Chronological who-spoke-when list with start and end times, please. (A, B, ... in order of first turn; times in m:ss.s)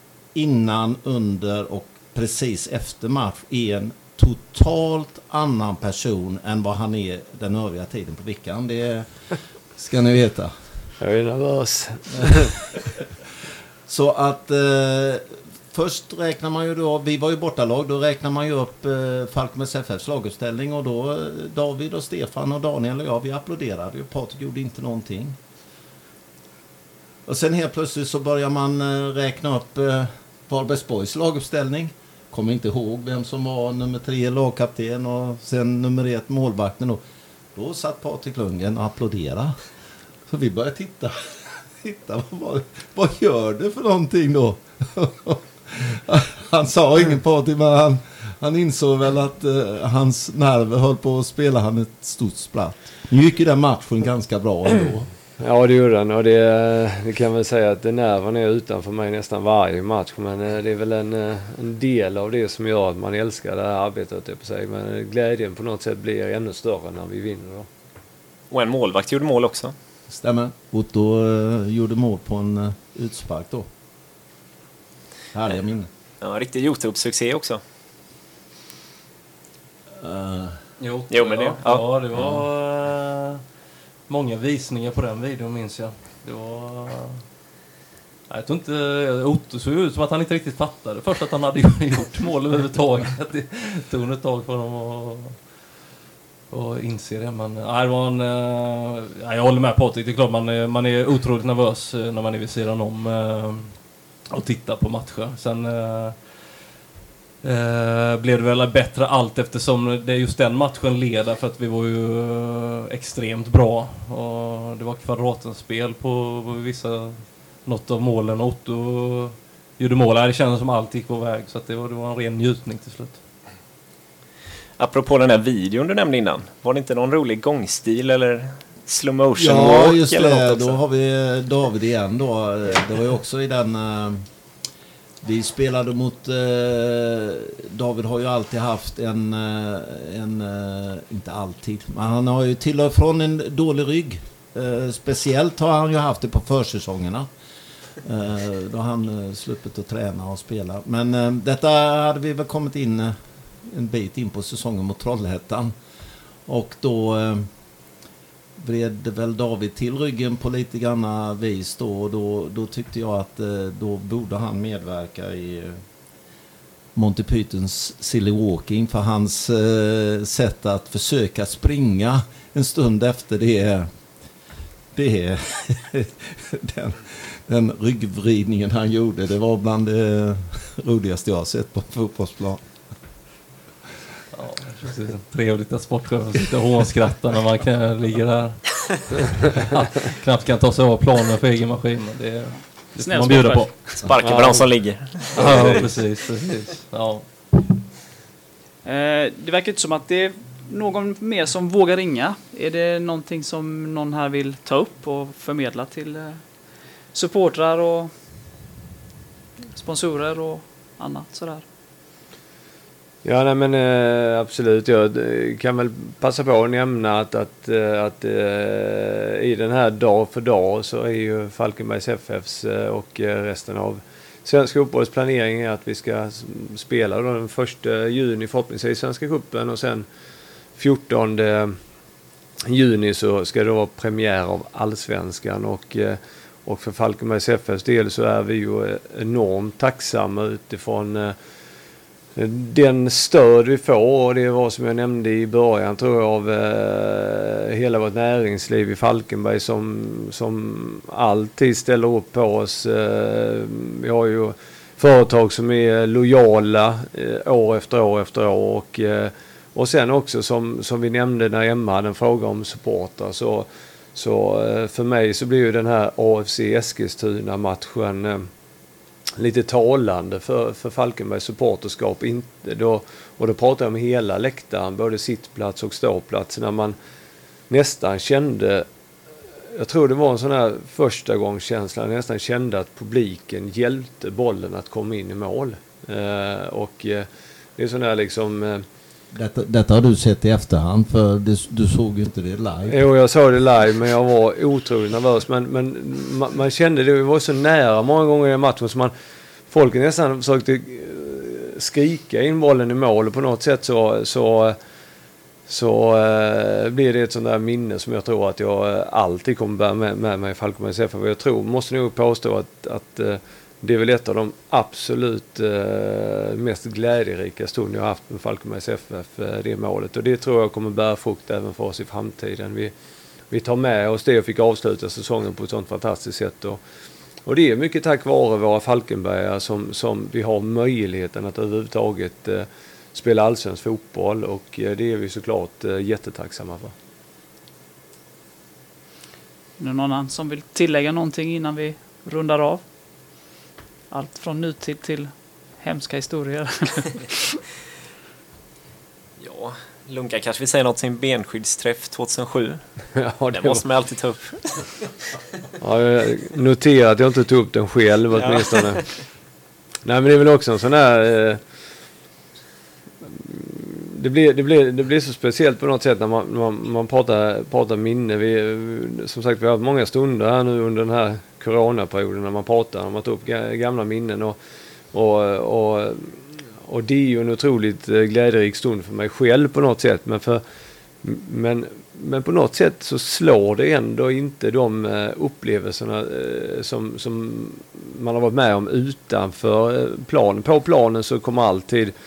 0:00.3-0:09.1 A
0:09.8-0:10.5 A
0:11.0-0:12.5 B
0:13.9-0:25.4 A
0:27.2-0:37.0 A
0:37.5-0:39.5 A
0:40.2-0:55.1 A
0:55.4-1:07.7 B
1:08.5-1:09.7 C
1:10.1-1:13.7 A
1:15.3-1:15.9 A
1:16.2-1:17.6 C
1:20.0-1:20.6 A
1:20.8-1:23.4 D
1:21.1-1:21.8 C
1:22.2-1:22.4 A
1:24.1-1:27.2 D
1:28.3-1:35.4 D
1:36.5-1:43.8 D
1:44.3-1:46.2 D
1:47.4-2:03.2 D
2:04.8-2:10.8 C
2:09.4-2:14.2 A
2:15.2-2:27.3 A
2:28.0-2:35.7 A
2:36.4-2:37.5 A
2:38.6-2:45.8 A
2:46.9-2:53.9 A
2:54.9-3:02.6 A
3:04.3-3:14.8 D
3:13.0-3:14.0 E
3:14.0-3:15.9 C
3:15.3-3:17.7 D
3:18.8-3:26.4 E
3:27.1-3:28.1 E
3:29.8-3:31.6 E
3:33.2-3:50.0 B
3:50.7-3:51.8 B
3:52.7-4:01.4 B
4:02.4-4:28.5 B
4:29.4-4:37.0 B
4:37.7-4:38.9 B
4:39.7-4:48.8 B
4:49.3-4:53.0 A
4:52.9-4:59.1 B
4:59.7-5:04.8 B
5:05.7-5:22.9 B
5:23.5-5:26.8 B
5:27.4-5:36.9 B
5:39.8-5:42.8 E
5:44.1-5:47.6 E
5:49.4-5:52.8 C
5:53.2-5:53.8 B
5:53.5-5:54.9 C
5:55.8-5:59.1 B
5:58.4-5:58.9 C
6:00.0-6:01.6 B
6:03.2-6:14.6 B
6:15.1-6:20.6 B
6:21.2-6:32.1 B